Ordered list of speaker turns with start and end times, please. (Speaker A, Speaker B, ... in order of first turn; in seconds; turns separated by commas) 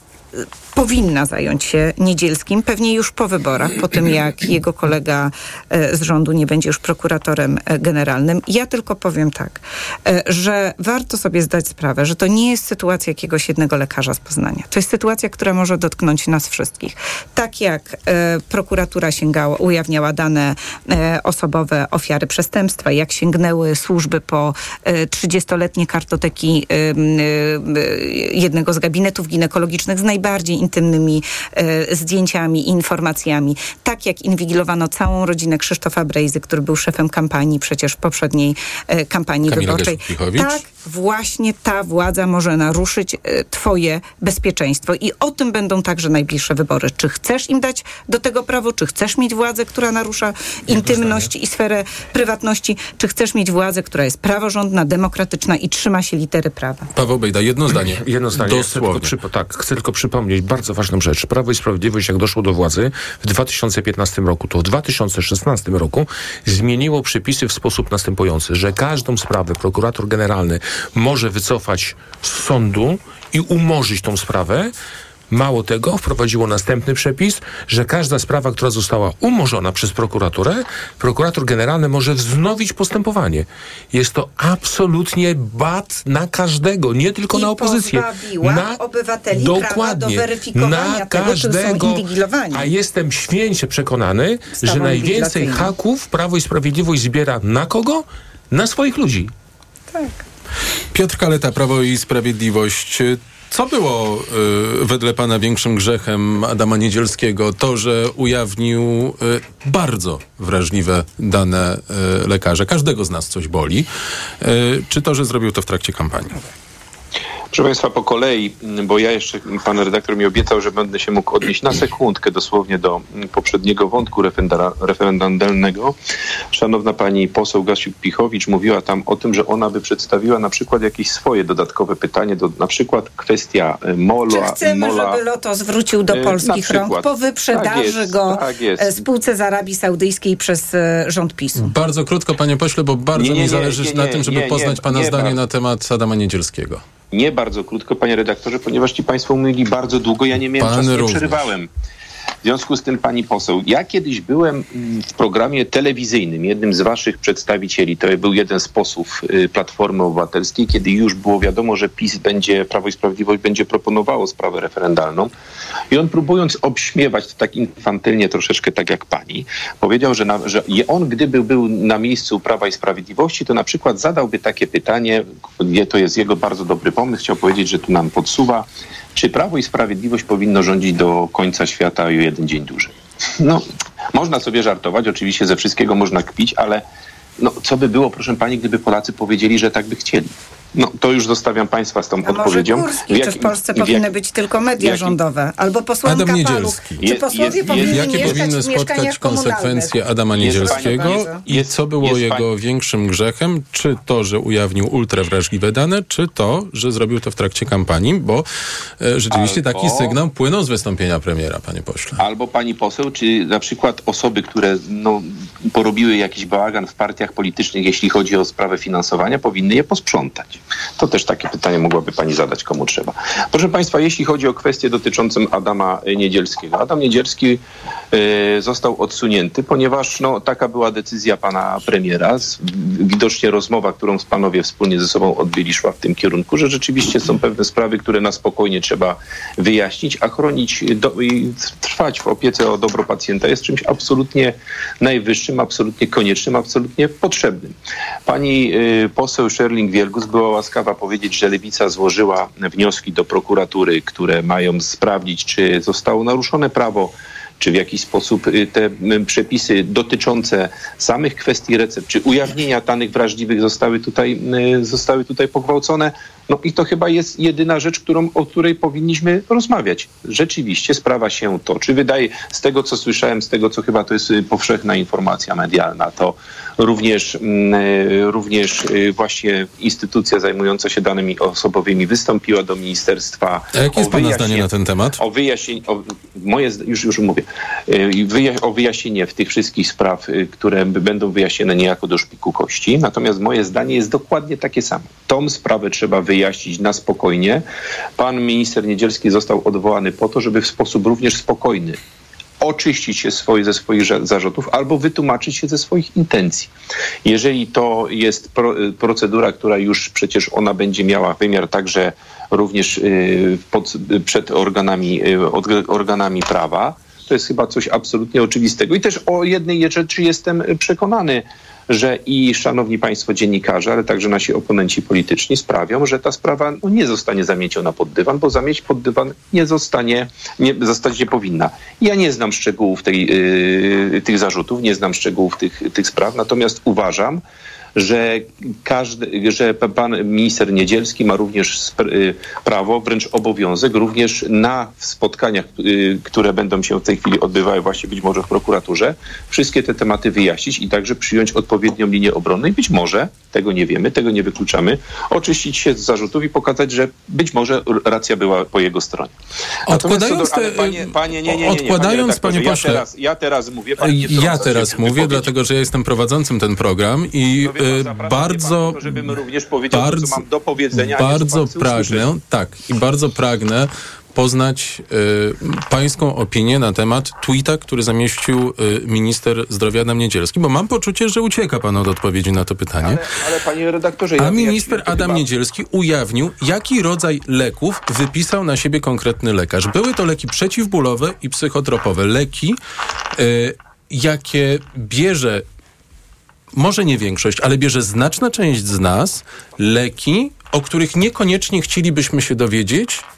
Speaker A: 0.3-56.9, Speaker B: 39.4-40.6, Speaker C: 50.7-51.2, Speaker B: 56.9-59.1, Speaker C: 57.9-74.7, Speaker C: 75.3-99.3, Speaker A: 87.3-92.7, Speaker A: 94.6-95.7, Speaker A: 99.9-100.2, Speaker B: 100.9-113.9, Speaker B: 114.4-116.4, Speaker D: 117.5-125.9, Speaker D: 126.5-135.2, Speaker A: 134.3-141.7, Speaker D: 136.1-139.0, Speaker B: 141.6-146.8, Speaker D: 143.1-145.4, Speaker D: 147.1-151.7, Speaker B: 150.6-151.4, Speaker D: 152.4-165.3, Speaker D: 165.9-186.8, Speaker D: 187.4-194.1, Speaker A: 192.2-201.4, Speaker D: 194.8-195.2, Speaker B: 196.0-197.0, Speaker D: 197.0-198.5, Speaker B: 197.8-208.4, Speaker D: 200.4-202.5, Speaker B: 209.0-212.2, Speaker D: 209.3-210.2, Speaker D: 212.2-227.6, Speaker D: 228.1-247.7, Speaker D: 248.2-297.6, Speaker B: 283.7-285.2, Speaker D: 298.2-302.0, Speaker D: 302.6-306.7, Speaker D: 307.2-337.4, Speaker D: 337.9-359.3, Speaker B: 359.9-363.0, Speaker D: 359.9-365.5, Speaker B: 364.0-369.1, Speaker D: 367.6-372.2, Speaker B: 369.9-370.4, Speaker B: 370.9-383.2, Speaker D: 383.0-385.4, Speaker B: 384.4-392.8, Speaker B: 393.4-395.6, Speaker B: 396.7-403.2